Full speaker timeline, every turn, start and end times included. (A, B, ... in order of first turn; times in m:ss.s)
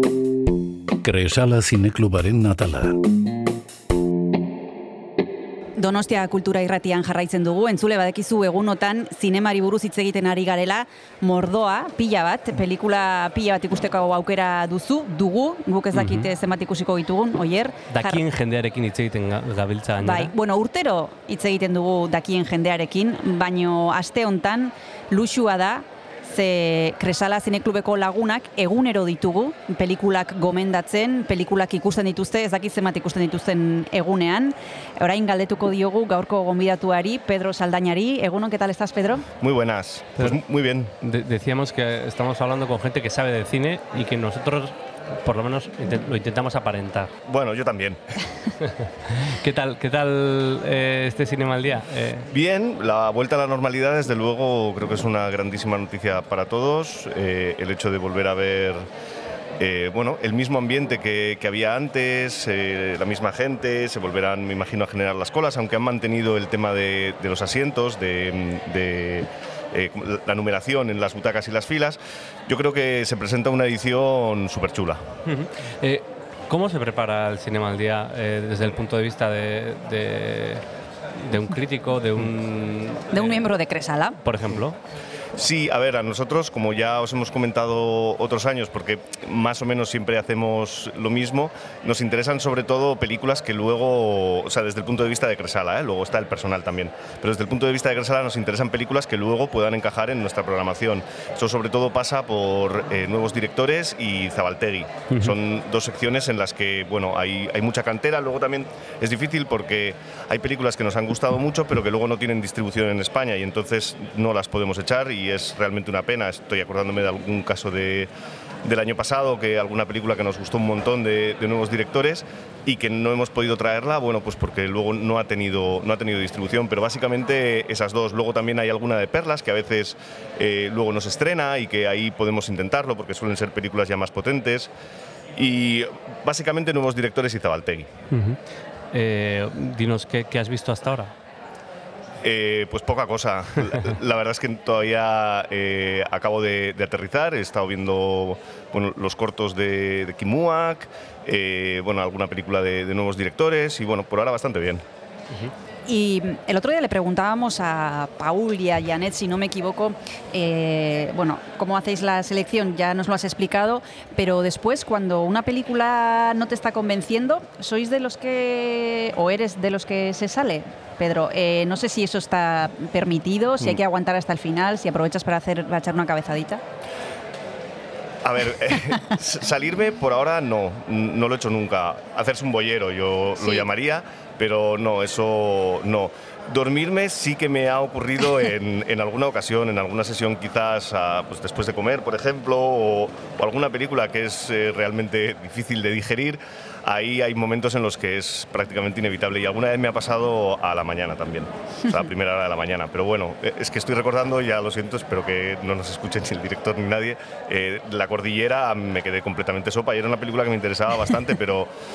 0:01.0-0:03.0 A
0:05.8-0:18.2 B
0:15.9-0:16.3 C
0:17.9-0:20.3 C
0:20.0-0:39.3 B
0:39.4-0:40.9 D
0:41.0-0:47.1 C
0:47.3-0:48.0 D
0:48.6-0:52.3 C
0:52.3-0:58.9 D
0:59.6-1:15.1 D
1:15.3-1:23.4 C
1:23.1-1:24.2 B
1:24.2-1:24.8 C
1:25.4-1:58.1 D
1:58.6-2:14.7 D
2:15.4-2:17.9 D
2:18.1-2:18.4 C
2:18.9-2:21.1 C
2:22.2-2:34.8 D
2:35.9-2:56.6 B
2:58.2-3:31.7 D
3:03.4-3:03.7 B